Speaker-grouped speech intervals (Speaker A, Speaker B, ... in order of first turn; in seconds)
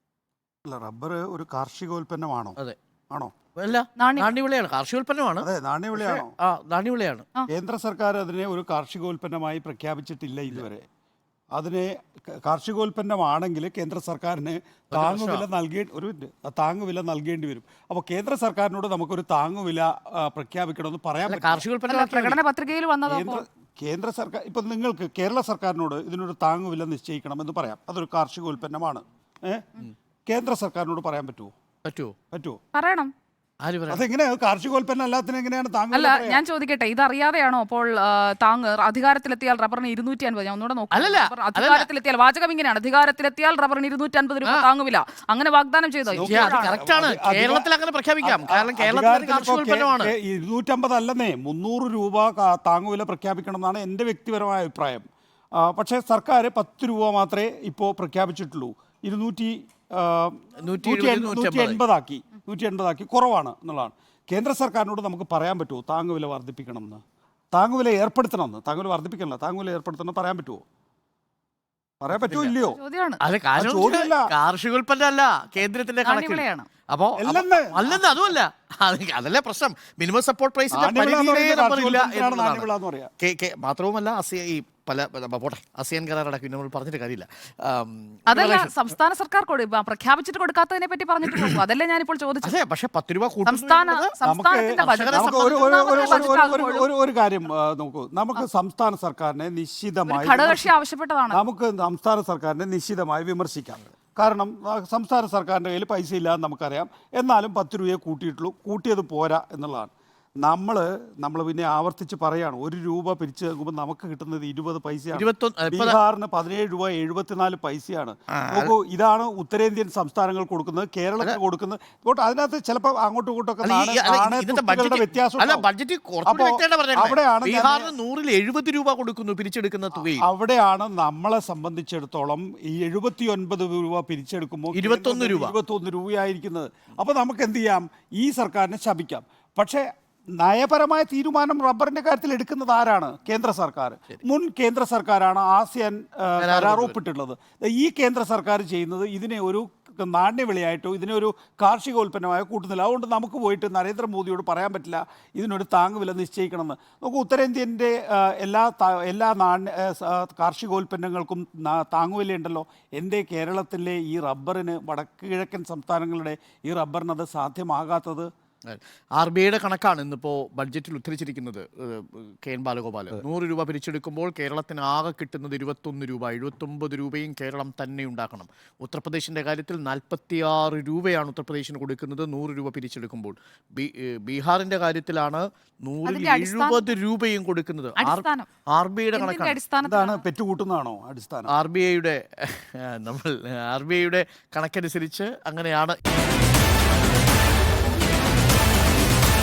Speaker A: 0.6-2.6, 5.4-6.3, 7.5-10.8, 11.5-21.6, 23.1-31.5, 32.3-32.6, 33.9-36.4, 46.1-47.7, 48.2-67.0, 67.5-70.6, 72.0-72.8, 73.6-74.3, 77.2-77.9, 80.7-83.1, 94.2-100.8, 101.3-109.9, 110.4-125.6, 126.2-127.9, 130.1-139.9, 140.4-168.3, 189.8-191.5
Speaker B: 3.5-7.3, 14.9-15.4, 21.3-22.4, 31.8-32.1, 33.6-34.0, 40.9-41.9, 46.2-50.1, 60.6-61.8, 72.1-72.5, 73.2-82.7, 83.2-88.9, 92.4-94.1, 94.8-96.6, 115.1-116.0, 118.3-118.7, 123.6-130.2, 134.7-135.5, 146.4-147.0, 168.7-189.6, 191.5-196.0
Speaker C: 4.0-4.3, 21.9-23.4, 32.7-33.1, 35.9-46.7, 72.6-73.2, 76.0-76.7, 88.3-92.5, 93.5-96.9, 100.1-101.4, 186.1-186.9, 188.0-188.5, 189.1-190.2